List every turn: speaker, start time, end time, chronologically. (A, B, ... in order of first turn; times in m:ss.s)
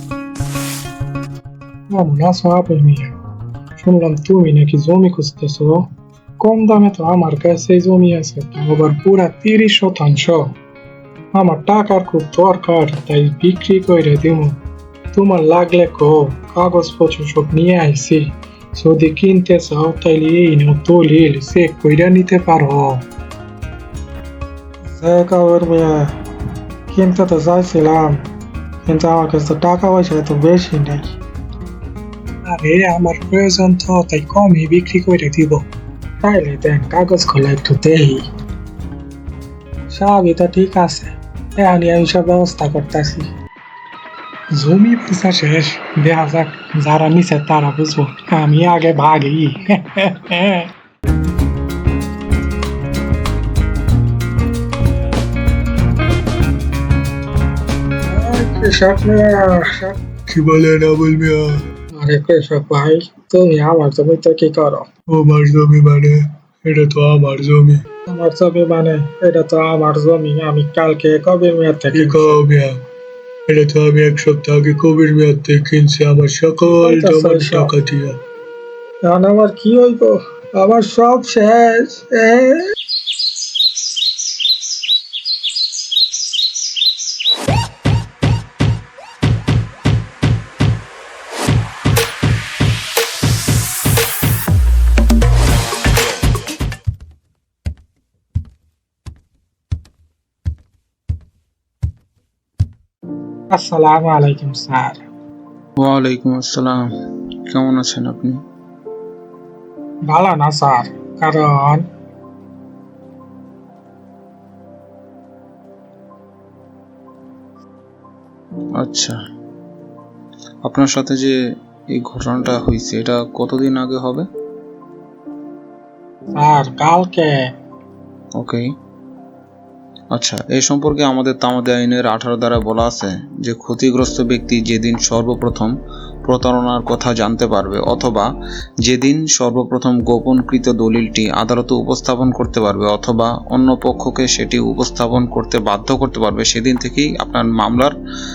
0:01.9-0:03.1 A
0:03.8-0:10.6 A
0:11.3-0:14.6 A
0:15.1-0:23.0 A
0:25.0-0:26.1 A
0:26.9-0:28.2 A
0:28.8-0:31.2 A
0:32.4-0:35.6 A
0:36.2-0:38.2 A
0:39.9-0:43.3 A
0:44.5-0:50.7 A
0:58.1-1:00.0 A
1:00.3-1:01.6 B
1:02.0-1:04.9 A
1:05.1-1:07.8 B
1:08.1-1:12.4 A
1:11.9-1:12.8 B
1:13.5-1:18.2 B
1:16.8-1:17.7 A
1:19.0-1:22.6 A
1:43.5-1:45.1 A
1:45.8-1:46.9 C
1:47.5-1:48.4 C
1:50.1-1:51.9 A
1:58.8-1:59.2 C
2:00.6-2:01.3 C
2:01.9-2:04.3 C
2:06.4-2:07.5 A
2:08.4-2:08.6 C
2:10.1-2:15.7 C
2:16.2-2:18.3 C
2:18.8-2:28.0 C